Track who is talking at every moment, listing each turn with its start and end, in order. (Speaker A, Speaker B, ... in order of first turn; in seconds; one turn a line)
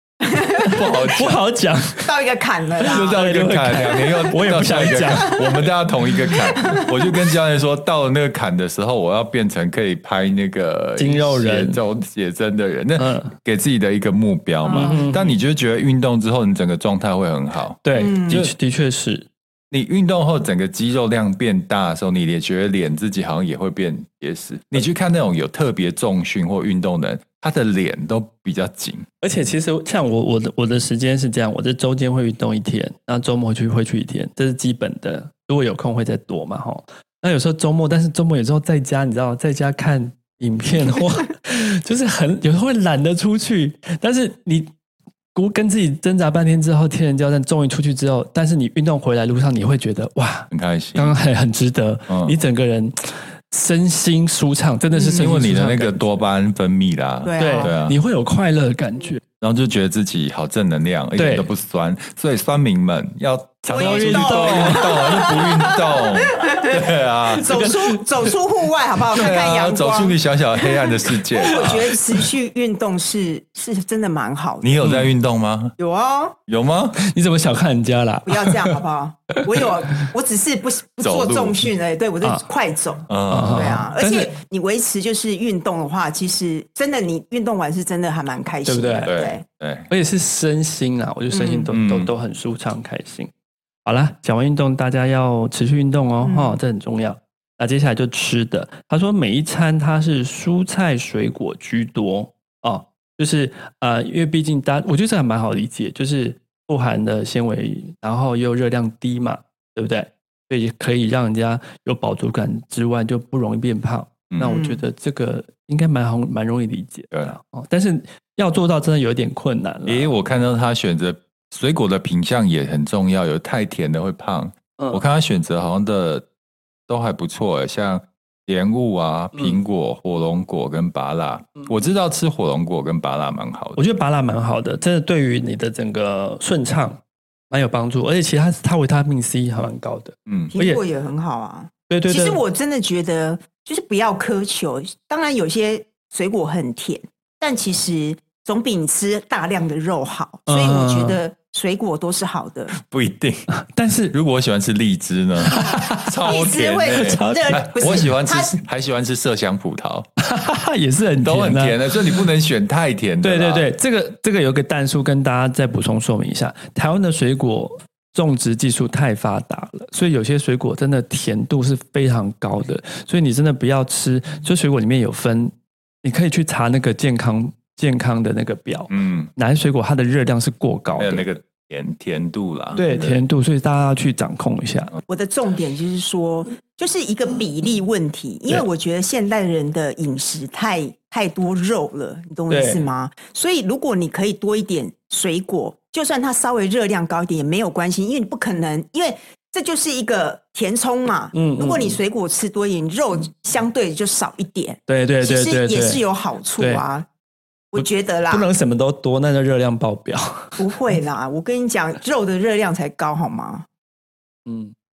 Speaker A: 0.3-0.7
Speaker B: 0.6-1.4
Speaker C: 1.0-2.1
Speaker A: 2.0-3.2
Speaker C: 2.8-5.7
Speaker B: 2.8-18.5
Speaker A: 6.5-6.9
Speaker C: 11.0-11.8
Speaker C: 13.0-13.3
Speaker A: 14.6-15.1
Speaker C: 14.7-15.2
Speaker C: 17.8-19.3
Speaker A: 17.9-18.4
Speaker B: 19.7-29.1
Speaker C: 29.2-44.7
Speaker C: 45.3-56.1
Speaker B: 50.5-51.1
Speaker B: 52.1-52.4
Speaker A: 54.9-55.3
Speaker B: 55.1-58.0
Speaker A: 57.2-57.7
Speaker C: 57.4-59.2
Speaker B: 59.4-67.6
Speaker C: 61.2-61.5
Speaker C: 63.7-65.3
Speaker A: 63.7-70.2
Speaker C: 67.5-68.0
Speaker B: 69.1-71.9
Speaker A: 71.3-74.8
Speaker B: 74.6-75.8
Speaker C: 74.8-75.1
Speaker A: 75.8-76.3
Speaker B: 76.5-77.0
Speaker C: 77.0-78.8
Speaker A: 78.2-89.4
Speaker B: 81.0-81.7
Speaker B: 83.1-83.8
Speaker C: 83.3-84.3
Speaker C: 88.7-89.1
Speaker B: 89.0-89.9
Speaker C: 89.9-93.3
Speaker A: 91.3-91.7
Speaker B: 91.7-92.1
Speaker C: 93.8-120.1
Speaker A: 96.2-96.6
Speaker B: 114.3-114.6
Speaker A: 114.4-114.8
Speaker B: 119.8-126.3
Speaker C: 124.8-125.0
Speaker B: 126.9-133.8
Speaker C: 133.8-140.8
Speaker B: 140.3-140.5
Speaker A: 140.5-152.7
Speaker C: 141.9-142.4
Speaker C: 150.5-151.2
Speaker B: 152.7-153.4
Speaker C: 153.6-154.1
Speaker B: 154.1-160.1
Speaker C: 155.4-156.2
Speaker A: 156.2-158.6
Speaker C: 156.9-158.1
Speaker C: 160.2-162.2
Speaker B: 161.2-163.7
Speaker C: 163.2-175.5
Speaker C: 176.0-181.2
Speaker B: 178.9-179.3
Speaker B: 181.0-183.2
Speaker C: 182.7-184.9
Speaker A: 185.1-207.1
Speaker C: 192.5-192.8
Speaker C: 201.3-202.0
Speaker C: 204.9-206.0
Speaker A: 207.7-208.4
Speaker C: 207.8-210.6
Speaker A: 210.6-213.7
Speaker C: 214.5-214.7